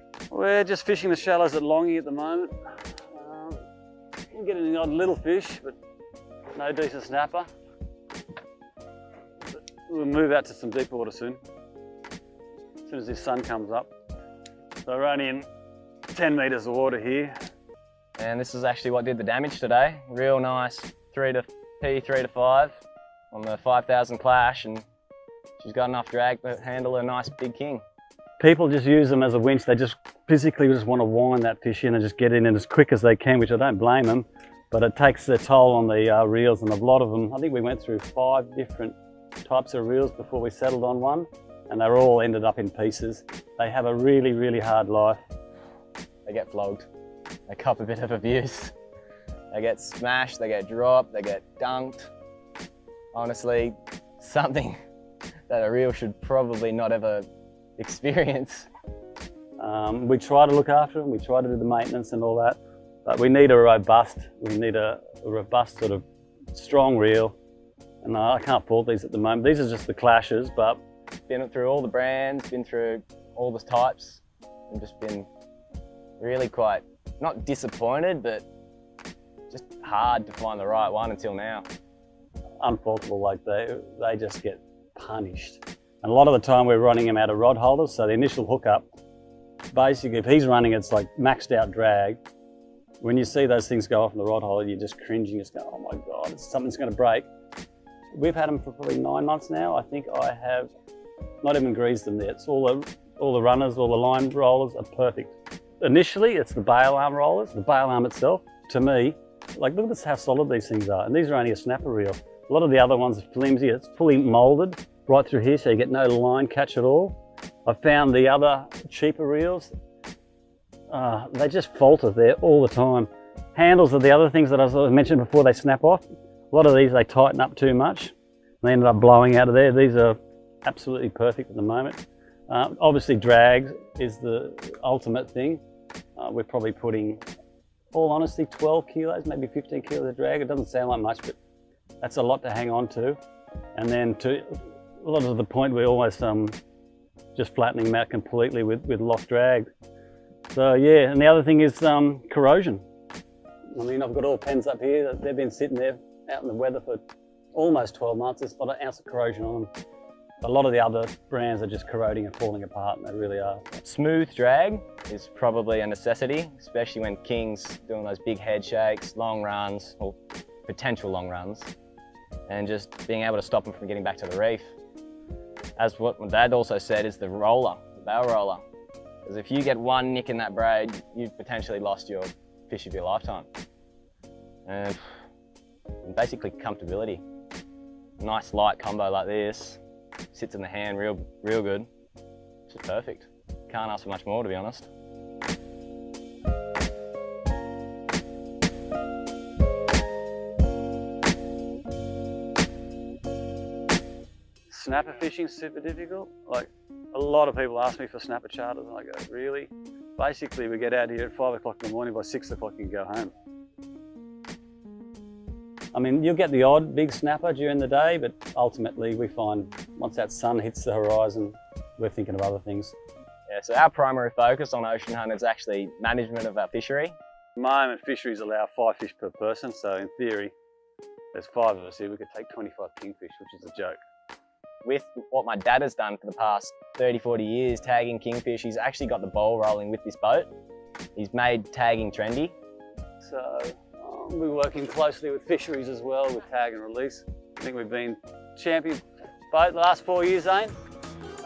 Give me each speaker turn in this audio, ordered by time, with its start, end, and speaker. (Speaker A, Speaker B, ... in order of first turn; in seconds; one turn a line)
Speaker A: 0.3-2.5
Speaker A: 3.1-3.6
Speaker A: 4.3-5.7
Speaker A: 6.5-7.5
Speaker A: 9.9-11.4
Speaker A: 12.9-13.9
Speaker A: 14.9-15.5
Speaker A: 16.1-17.3
Speaker B: 18.2-22.8
Speaker B: 23.3-24.9
Speaker B: 25.6-27.8
Speaker A: 28.4-45.2
Speaker B: 46.3-46.9
Speaker B: 47.5-48.7
Speaker B: 49.5-52.1
Speaker B: 53.1-54.8
Speaker B: 55.5-57.3
Speaker B: 57.8-58.7
Speaker A: 59.6-66.0
Speaker A: 66.5-67.4
Speaker A: 68.0-70.8
Speaker B: 71.3-75.3
Speaker B: 76.2-78.4
Speaker B: 79.5-81.7
Speaker A: 82.6-88.9
Speaker A: 89.7-92.2
Speaker A: 93.0-97.3
Speaker A: 98.1-100.7
Speaker A: 101.4-119.7
Speaker A: 120.9-135.6
Speaker A: 136.2-137.2
Speaker A: 137.9-141.3
Speaker A: 142.0-143.2
Speaker A: 143.8-146.5
Speaker A: 147.3-149.7
Speaker A: 150.5-152.8
Speaker A: 153.7-157.0
Speaker A: 157.5-159.7
Speaker A: 160.4-163.8
Speaker B: 163.8-171.7
Speaker B: 172.5-174.7
Speaker B: 175.8-178.6
Speaker B: 179.2-183.5
Speaker B: 184.7-185.0
Speaker B: 186.0-187.2
Speaker B: 188.2-189.8
Speaker B: 190.3-191.9
Speaker B: 192.7-194.9
Speaker A: 204.7-213.3
Speaker A: 215.9-222.9
Speaker B: 223.5-227.1
Speaker A: 227.6-230.5
Speaker A: 231.3-234.0
Speaker B: 234.8-240.5
Speaker B: 241.2-242.6
Speaker A: 243.2-250.7